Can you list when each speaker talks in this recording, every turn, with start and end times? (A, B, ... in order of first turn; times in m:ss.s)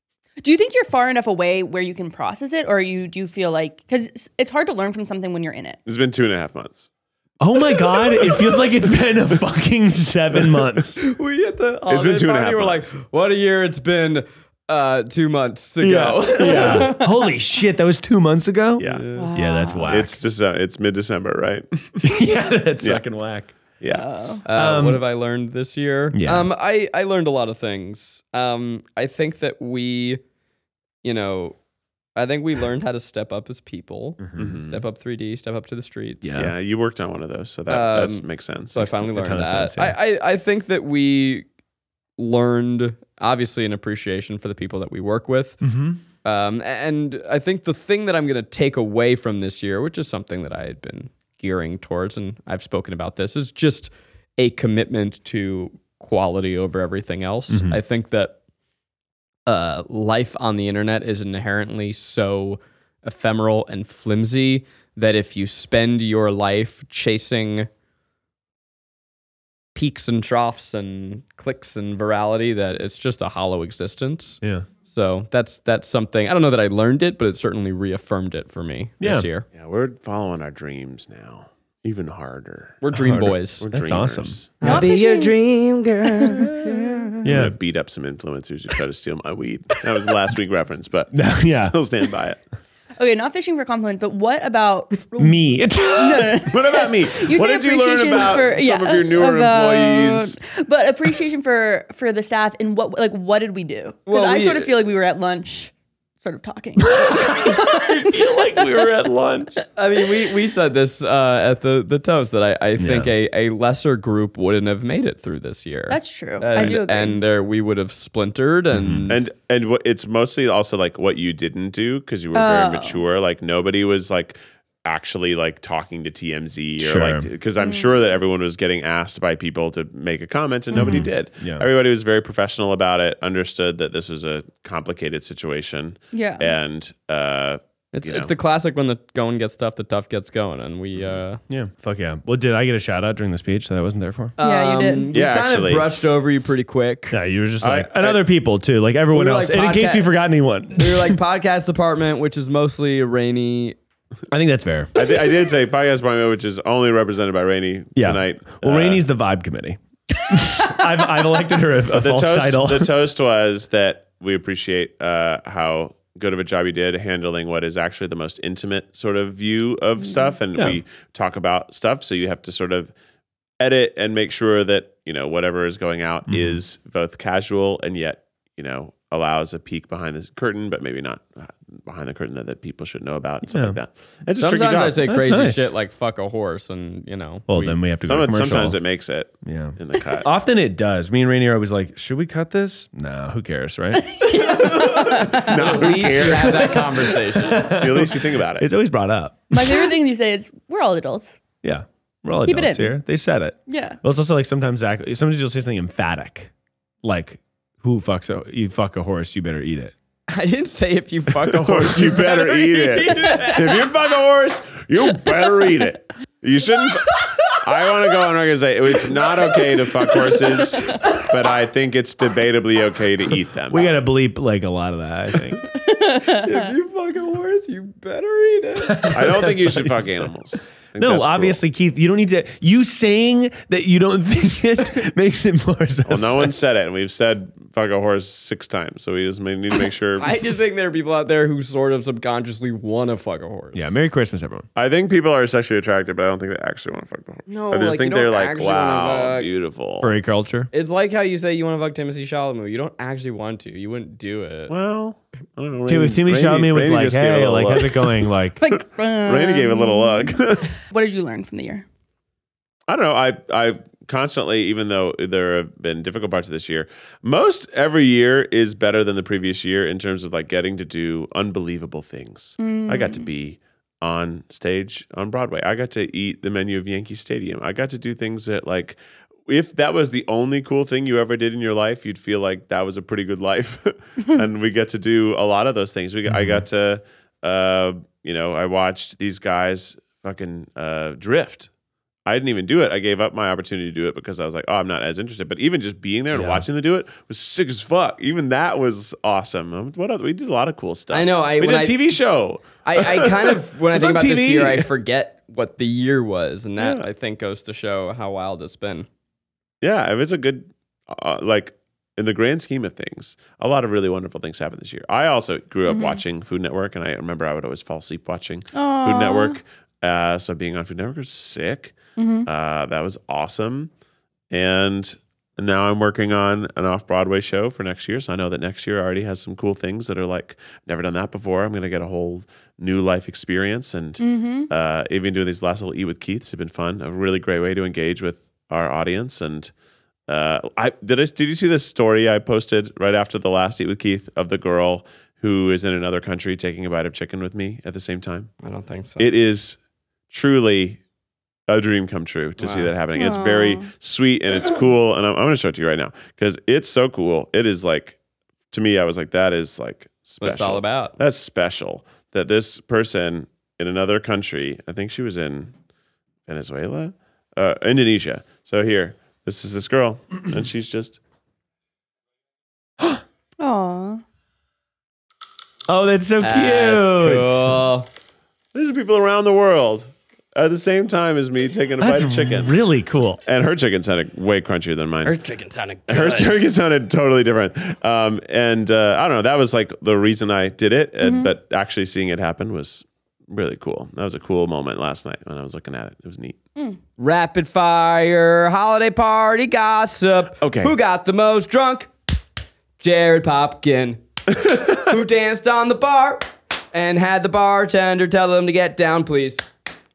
0:00.4-0:05.8 A
0:05.8-0:06.9 B
0:07.4-0:11.0 C
0:11.0-0:17.0 D
0:11.9-0:12.9 B
0:15.8-0:20.2 C
0:16.4-0:17.2 A
0:18.8-0:19.0 B
0:18.8-0:19.3 D
0:19.1-0:19.9 A
0:19.9-0:22.2 B
0:22.0-0:23.5 C
0:22.8-0:23.0 B
0:23.7-0:24.2 B
0:23.9-0:24.4 A
0:24.4-0:30.2 D
0:24.5-0:25.0 C
0:26.1-0:26.5 C
0:31.0-0:31.6 D
0:32.2-0:36.3 D
0:34.2-0:34.5 C
0:34.4-0:34.8 B
0:36.2-0:36.5 C
0:36.3-0:39.1 B
0:37.7-0:41.4 D
0:39.1-0:40.0 C
0:42.2-0:45.7 D
0:45.6-0:46.0 C
0:46.2-0:58.4 D
0:57.5-0:57.8 C
0:59.5-1:07.7 D
1:09.7-1:19.4 D
1:14.4-1:14.7 C
1:19.0-1:19.3 C
1:19.5-1:22.8 B
1:22.8-1:23.7 D
1:22.9-1:24.4 C
1:23.6-1:24.6 B
1:24.6-1:27.2 D
1:24.6-1:25.3 A
1:26.2-1:26.5 A
1:26.5-1:32.4 B
1:27.2-1:27.6 C
1:31.1-1:31.7 C
1:33.0-1:48.8 A
1:35.2-1:36.5 C
1:36.4-1:40.4 B
1:44.1-1:44.7 D
1:46.8-1:49.6 C
1:49.8-1:59.2 D
1:52.8-1:53.1 C
1:55.9-1:57.2 A
1:58.7-1:59.1 C
1:59.1-2:18.3 B
2:02.3-2:03.0 A
2:06.8-2:07.3 C
2:07.6-2:07.9 A
2:10.7-2:11.1 A
2:10.7-2:11.7 C
2:16.1-2:16.5 A
2:17.9-2:21.4 D
2:20.9-2:21.2 B
2:21.5-2:24.3 C
2:24.4-2:27.2 D
2:24.4-2:25.1 A
2:25.1-2:25.9 B
2:27.1-2:31.2 C
2:27.6-2:28.2 B
2:29.1-2:30.1 D
2:30.8-2:33.8 D
2:34.3-2:34.9 C
2:34.9-2:39.0 B
2:37.9-2:42.9 C
2:41.9-2:52.9 B
2:50.6-2:50.8 C
2:53.6-3:05.0 B
2:56.3-2:56.6 C
3:03.4-3:03.8 C
3:04.4-3:07.8 D
3:04.5-3:05.7 C
3:07.5-3:08.8 C
3:08.0-3:10.3 B
3:09.4-3:14.8 C
3:14.1-3:15.9 A
3:14.6-3:17.7 D
3:15.1-3:18.7 B
3:15.9-3:19.9 C
3:19.5-3:21.4 A
3:21.6-3:26.5 C
3:22.4-3:23.0 A
3:23.7-3:24.0 A
3:27.0-3:29.9 C
3:30.3-3:33.9 D
3:31.4-3:43.9 B
3:33.2-3:33.5 A
3:40.3-3:41.2 A
3:43.7-3:45.6 C
3:45.6-3:46.7 A
3:46.2-3:49.2 D
3:48.8-3:50.2 C
3:49.1-3:51.6 B
3:51.0-3:56.5 C
3:56.0-4:00.3 B
4:00.2-4:03.9 D
4:03.7-4:04.6 C
4:04.8-4:10.1 B
4:07.5-4:09.5 D
4:10.0-4:10.7 C
4:10.7-4:14.7 D
4:14.7-4:20.7 B
4:15.9-4:18.6 C
4:18.6-4:21.8 A
4:22.9-4:51.7 B
4:32.6-4:33.3 A
4:46.3-4:46.6 C
4:52.2-5:03.6 B
4:56.3-4:56.6 C
5:01.1-5:02.0 D
5:02.8-5:09.1 D
5:03.9-5:04.8 C
5:04.3-5:04.7 B
5:06.8-5:07.0 B
5:09.8-5:23.9 B
5:15.9-5:16.2 A
5:18.7-5:19.6 A
5:22.2-5:22.5 A
5:24.5-5:39.7 B
5:34.2-5:34.7 A
5:40.3-5:48.5 B
5:48.6-5:49.3 D
5:49.2-5:49.8 B
5:50.3-5:51.0 B
5:51.7-5:58.2 B
5:52.6-5:52.9 D
5:53.1-5:53.9 A
5:58.7-6:05.7 B
6:00.4-6:01.2 D
6:06.5-6:11.2 B
6:13.6-6:14.2 A
6:15.9-6:17.8 C
6:16.4-6:18.1 D
6:18.7-6:22.8 B
6:22.0-6:23.4 C
6:23.4-6:25.4 B
6:25.2-6:26.5 D
6:26.1-6:36.6 B
6:31.2-6:31.5 A
6:37.2-6:42.1 D
6:40.6-6:40.9 B
6:43.0-6:44.2 D
6:44.7-6:49.6 D